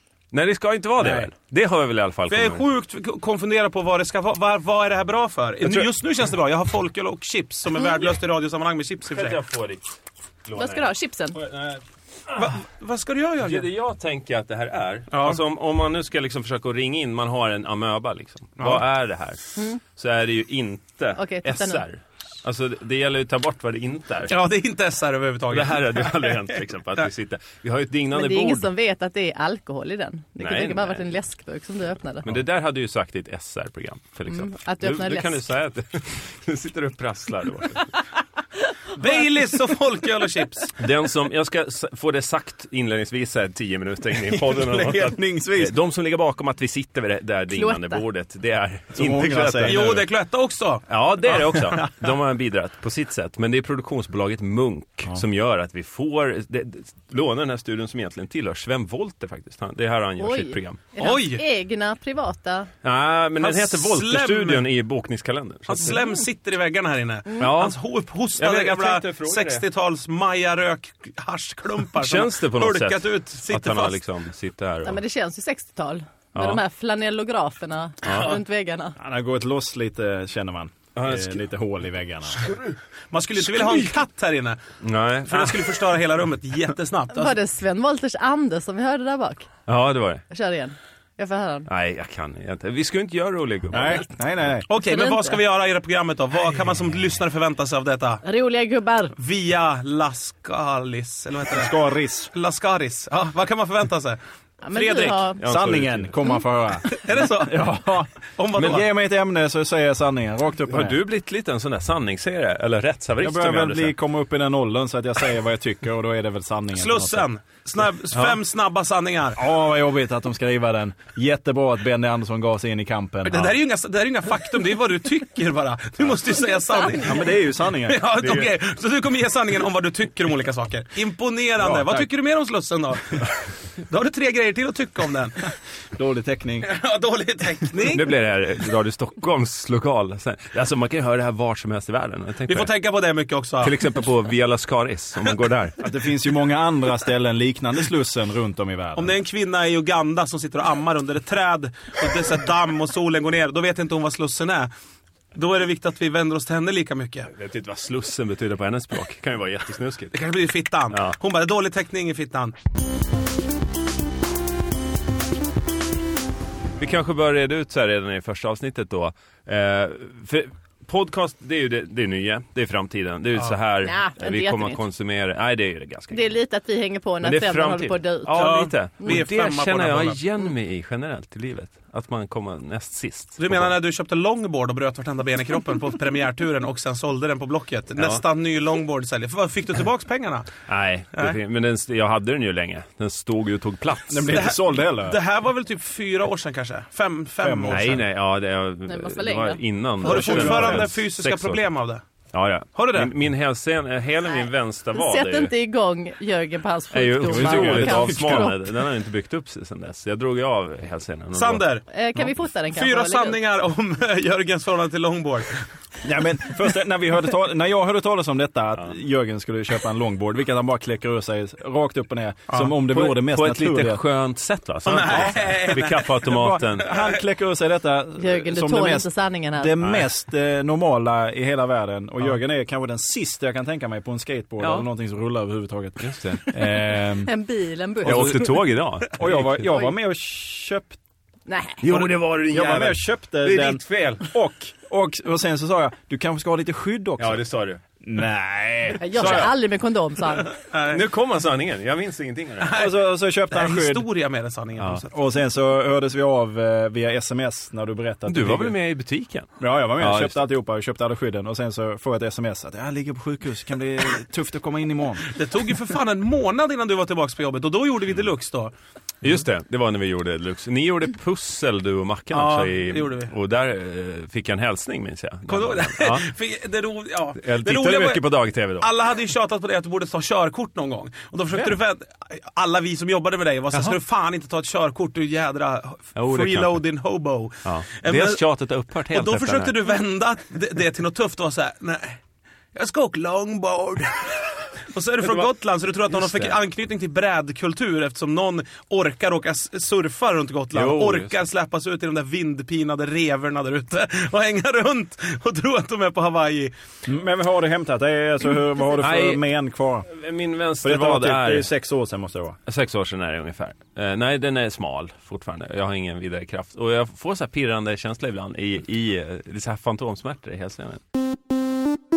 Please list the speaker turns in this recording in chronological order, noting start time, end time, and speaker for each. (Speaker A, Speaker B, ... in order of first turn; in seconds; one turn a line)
Speaker A: 0.3-2.6
Speaker B: 1.0-1.3
Speaker C: 2.3-9.4
Speaker A: 9.1-12.5
Speaker D: 10.6-11.4
Speaker C: 12.3-13.7
Speaker A: 13.4-24.4
Speaker C: 15.1-15.4
Speaker C: 18.6-18.8
Speaker D: 21.1-21.8
Speaker C: 24.3-26.4
Speaker A: 25.5-28.7
Speaker D: 28.1-32.3
Speaker A: 30.4-31.1
Speaker A: 32.2-37.9
Speaker D: 34.3-35.4
Speaker C: 39.0-40.8
Speaker A: 40.8-50.1
Speaker B: 44.6-45.8
Speaker D: 47.5-48.0
Speaker B: 48.9-50.0
Speaker C: 49.6-51.6
Speaker A: 50.9-60.8
Speaker D: 60.2-62.7
Speaker C: 61.0-61.4
Speaker A: 62.8-66.0
Speaker C: 63.4-64.6
Speaker C: 65.7-74.0
Speaker A: 67.4-67.8
Speaker A: 68.3-69.6
Speaker A: 72.0-75.0
Speaker D: 74.8-79.0
Speaker A: 76.3-76.6
Speaker A: 78.0-78.4
Speaker B: 79.0-82.5
Speaker A: 81.0-81.4
Speaker A: 82.4-82.7
Speaker C: 83.1-84.6
Speaker A: 83.5-83.8
Speaker A: 84.8-85.7
Speaker C: 85.2-87.3
Speaker D: 87.1-89.5
Speaker A: 89.7-90.2
Speaker D: 90.3-91.7
Speaker A: 91.7-94.2
Speaker B: 93.7-94.7
Speaker C: 94.7-98.2
Speaker D: 94.8-95.4
Speaker D: 98.2-99.1
Speaker C: 99.2-101.7
Speaker B: 101.5-102.3
Speaker C: 102.3-105.3
Speaker D: 104.6-105.4
Speaker A: 105.0-106.2
Speaker B: 105.4-111.0
Speaker C: 106.9-107.7
Speaker C: 108.3-108.9
Speaker A: 110.7-113.9
Speaker B: 113.2-117.2
Speaker C: 116.7-119.4
Speaker B: 119.3-123.6
Speaker C: 123.2-133.3
Speaker B: 127.0-128.0
Speaker A: 128.2-128.5
Speaker B: 131.6-132.1
Speaker C: 133.8-135.4
Speaker B: 135.9-136.7
Speaker C: 136.6-138.1
Speaker A: 137.8-142.7
Speaker C: 142.5-143.7
Speaker A: 143.6-145.9
Speaker B: 145.8-149.1
Speaker C: 148.9-154.7
Speaker C: 155.3-157.3
Speaker A: 157.3-160.2
Speaker C: 160.1-162.5
Speaker A: 166.8-176.3
Speaker D: 173.8-174.8
Speaker D: 176.1-179.2
Speaker A: 177.2-183.7
Speaker C: 178.3-180.2
Speaker C: 183.4-190.5
Speaker A: 187.9-188.2
Speaker A: 190.7-194.6
Speaker B: 194.1-195.2
Speaker C: 194.3-198.0
Speaker B: 197.4-198.0
Speaker A: 197.7-201.6
Speaker D: 198.9-199.6
Speaker C: 200.0-202.0
Speaker B: 200.0-200.9
Speaker A: 202.3-205.5
Speaker C: 202.7-203.1
Speaker D: 204.3-208.8
Speaker A: 206.9-211.6
Speaker B: 207.2-208.5
Speaker C: 211.3-211.8
Speaker D: 211.9-213.4
Speaker C: 212.7-215.7
Speaker B: 216.0-224.0
Speaker A: 222.8-226.9
Speaker C: 224.8-226.1
Speaker B: 225.0-237.3
Speaker C: 226.8-227.2
Speaker D: 228.2-229.8
Speaker A: 229.8-230.1
Speaker A: 234.6-234.9
Speaker A: 236.0-236.4
Speaker D: 236.5-238.6
Speaker A: 238.0-239.7
Speaker B: 238.0-238.5
Speaker B: 239.1-241.0
Speaker D: 241.5-241.8
Speaker A: 241.8-244.2
Speaker B: 241.9-247.4
Speaker A: 247.2-247.8
Speaker B: 248.0-249.5
Speaker D: 249.0-250.6
Speaker A: 249.1-249.6
Speaker C: 250.5-251.0
Speaker A: 250.9-252.8
Speaker C: 252.6-255.1
Speaker B: 252.7-254.1
Speaker B: 255.1-258.8
Speaker A: 258.3-260.4
Speaker B: 259.6-265.3
Speaker C: 265.3-268.7
Speaker A: 269.2-276.2
Speaker C: 272.3-273.3
Speaker C: 275.5-288.4
Speaker A: 277.4-278.9
Speaker A: 286.1-286.8
Speaker A: 287.6-289.8
Speaker C: 289.1-292.2
Speaker C: 292.7-306.7
Speaker A: 295.2-295.5
Speaker A: 296.1-296.6
Speaker A: 300.7-301.3
Speaker B: 307.1-310.1
Speaker A: 309.0-309.4
Speaker A: 310.1-311.7
Speaker B: 310.8-312.6
Speaker A: 312.7-321.0